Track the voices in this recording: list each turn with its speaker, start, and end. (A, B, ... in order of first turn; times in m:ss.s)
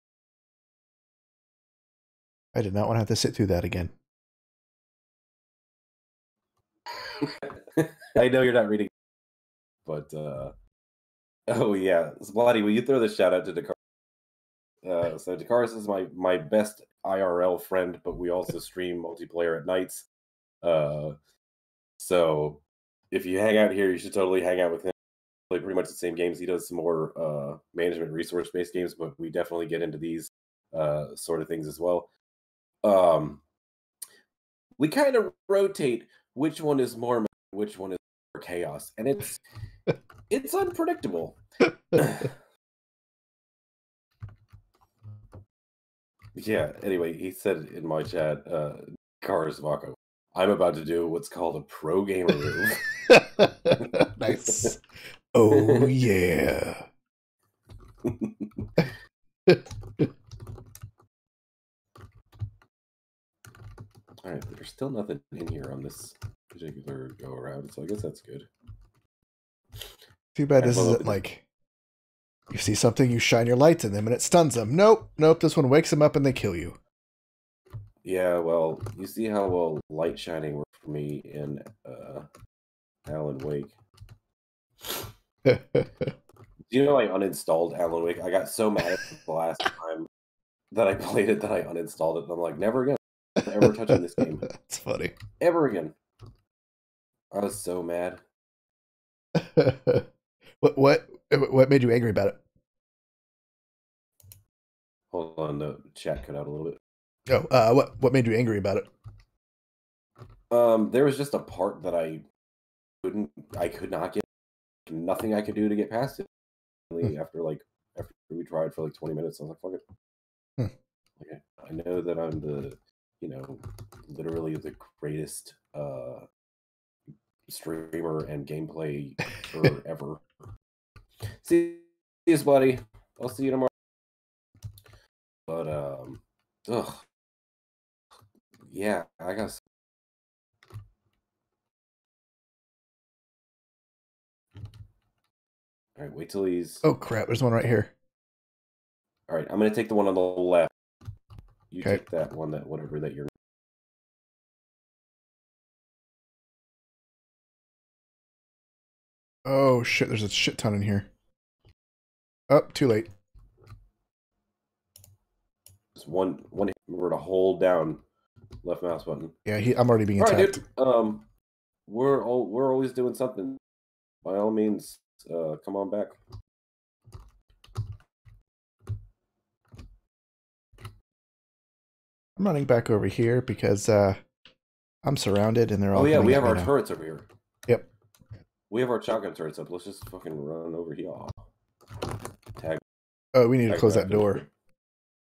0:02.5-0:03.9 A
0:07.2-0:08.9 B
0:09.8-0:10.5 B
0:11.5-0:13.8 B
0:14.8-0:20.1 B
0:20.6-0:21.2 B
0:22.0-0:24.9 B
0:25.5-0:32.1 B
0:32.8-0:33.4 B
0:34.8-0:39.4 B
0:40.3-0:41.4 B
0:41.9-0:42.3 B
0:46.3-0:52.9 B
0:53.1-0:54.8 A
0:53.7-0:54.7 B
0:55.3-0:56.9 A
0:55.5-0:55.9 B
0:58.0-0:58.8 B
0:59.4-1:00.1 A
1:04.2-1:08.5 B
1:10.3-1:11.4 A
1:10.6-1:11.2 B
1:12.5-1:16.8 A
1:18.0-1:22.3 B
1:23.0-1:23.8 B
1:25.4-1:26.1 A
1:26.7-1:30.1 B
1:30.7-1:34.5 B
1:33.6-1:35.1 A
1:35.4-1:35.9 B
1:37.3-1:38.2 B
1:39.3-1:40.1 A
1:40.6-1:42.4 A
1:45.1-1:46.8 B
1:47.3-1:48.9 A
1:50.5-1:52.2 B
1:53.0-1:54.2 B
1:54.8-1:56.3 B
1:56.9-1:59.8 B
2:01.2-2:06.2 B
2:07.5-2:10.2 B
2:11.3-2:13.7 B
2:15.5-2:17.0 B
2:18.6-2:19.6 B
2:26.0-2:26.8 B
2:26.8-2:27.9 A
2:29.3-2:30.7 B
2:31.7-2:33.3 B
2:39.4-2:41.1 A
2:42.5-2:43.1 A
2:46.0-2:48.0 B
2:48.6-2:49.4 B
2:49.4-2:50.6 A
2:50.2-2:51.2 B
2:51.9-2:53.6 B
2:54.2-2:56.2 B
3:02.4-3:04.2 A
3:05.0-3:06.7 A
3:05.9-3:07.3 B
3:08.7-3:11.4 B
3:12.6-3:12.8 B
3:13.3-3:14.4 A
3:13.7-3:14.5 B